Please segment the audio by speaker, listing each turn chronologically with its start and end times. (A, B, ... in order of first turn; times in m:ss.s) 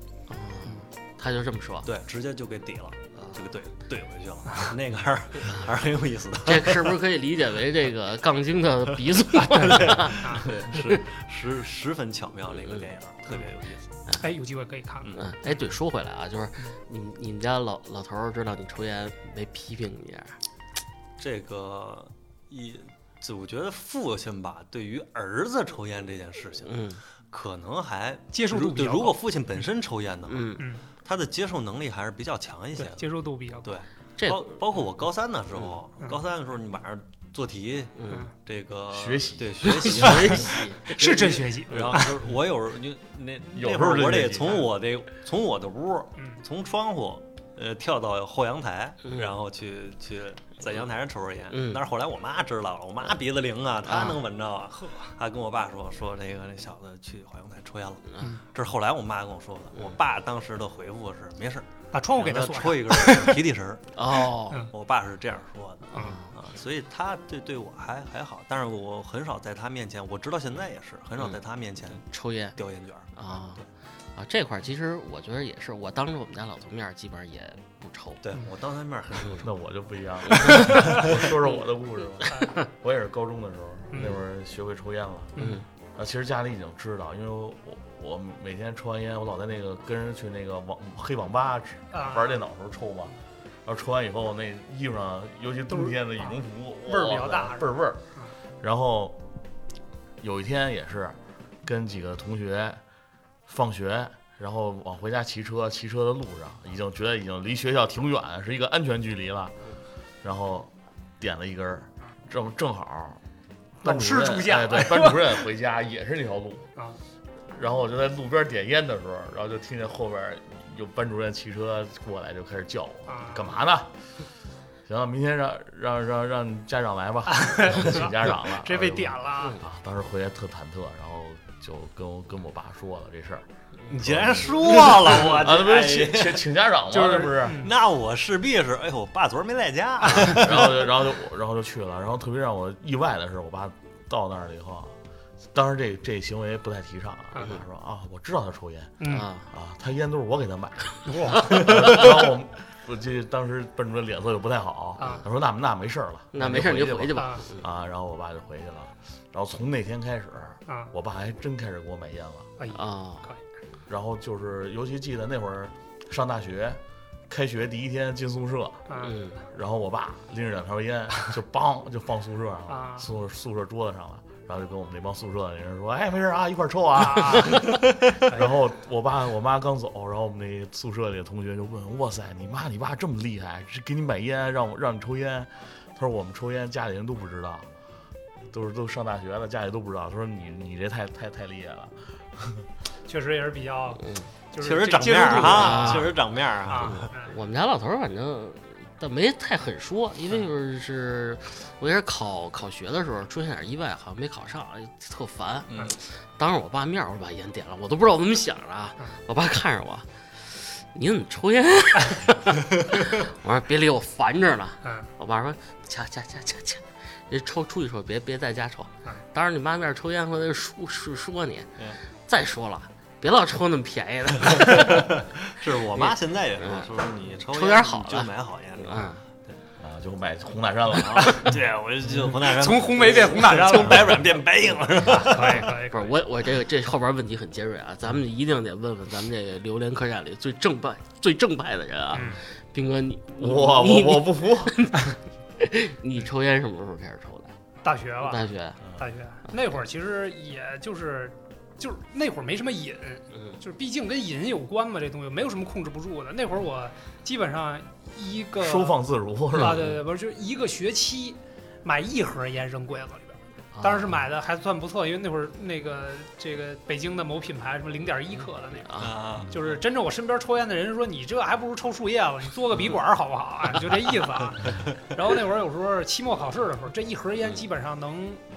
0:00.3-0:01.9 A
0:01.8-0:07.0 B
0:06.4-0:11.0 A
0:09.4-0:13.8 B
0:09.9-0:10.5 C
0:12.6-0:12.9 A
0:14.2-0:15.2 C
0:15.2-0:20.4 A
0:21.2-1:03.9 B
0:26.6-0:27.0 A
0:28.3-0:29.2 C
0:30.3-0:30.7 A
0:30.6-0:30.8 C
0:32.8-0:33.7 C
0:34.2-0:34.5 A
0:38.0-0:38.3 A
0:38.9-0:39.6 D
0:39.7-0:41.3 A
0:39.8-0:42.2 C
0:43.5-0:44.7 D
0:49.1-0:49.3 A
0:51.5-0:51.8 A
0:53.8-0:54.2 A
0:54.8-0:55.1 C
1:01.9-1:03.4 C
1:04.0-1:04.6 A
1:04.7-1:12.0 B
1:05.9-1:06.3 A
1:12.0-1:12.6 A
1:12.6-1:13.1 B
1:13.1-1:13.6 A
1:14.2-1:18.2 A
1:18.2-1:19.5 B
1:19.2-1:19.4 A
1:19.4-1:25.3 D
1:20.3-1:21.0 A
1:21.0-1:21.3 B
1:23.9-1:24.2 C
1:25.4-1:25.6 A
1:26.0-1:33.1 D
1:31.9-1:32.4 C
1:33.6-1:38.0 D
1:35.7-1:38.3 C
1:38.6-1:39.2 D
1:40.2-1:42.8 D
1:43.5-1:49.6 D
1:50.2-1:53.2 D
1:53.8-1:56.7 D
1:53.8-1:55.4 C
1:57.5-2:03.9 D
2:03.1-2:03.6 C
2:04.8-2:17.7 D
2:07.3-2:09.6 C
2:13.9-2:16.4 B
2:16.9-2:17.7 C
2:17.5-2:20.9 B
2:20.2-2:25.0 D
2:25.5-2:42.5 D
2:29.0-2:29.3 C
2:29.1-2:29.5 A
2:31.0-2:31.7 C
2:35.0-2:35.2 C
2:36.3-2:37.6 A
2:37.2-2:37.4 C
2:40.7-2:40.9 C
2:42.6-2:43.4 C
2:42.7-2:43.3 A
2:43.9-2:48.9 D
2:48.9-2:49.2 C
2:49.0-2:49.4 A
2:49.5-3:07.7 D
2:52.7-2:53.1 C
2:57.0-2:57.7 C
3:08.5-3:12.7 D
3:13.1-3:17.4 C
3:14.0-3:14.3 A
3:14.6-3:17.1 B
3:15.3-3:16.2 A
3:16.8-3:41.7 A
3:25.7-3:25.9 B
3:34.8-3:35.1 C
3:42.3-3:45.1 A
3:44.5-3:49.6 B
3:45.9-3:46.9 A
3:47.5-3:49.2 A
3:49.8-3:51.3 D
3:50.9-3:55.7 B
3:51.2-3:51.5 C
3:52.4-3:54.2 C
3:55.1-3:56.2 C
3:55.4-4:07.5 A
4:02.1-4:02.4 C
4:03.4-4:04.9 D
4:07.8-4:19.0 C
4:08.2-4:08.8 A
4:18.6-4:20.0 D
4:19.5-4:38.4 C
4:19.5-4:19.9 A
4:23.7-4:24.2 A
4:28.8-4:29.2 A
4:29.0-4:29.8 B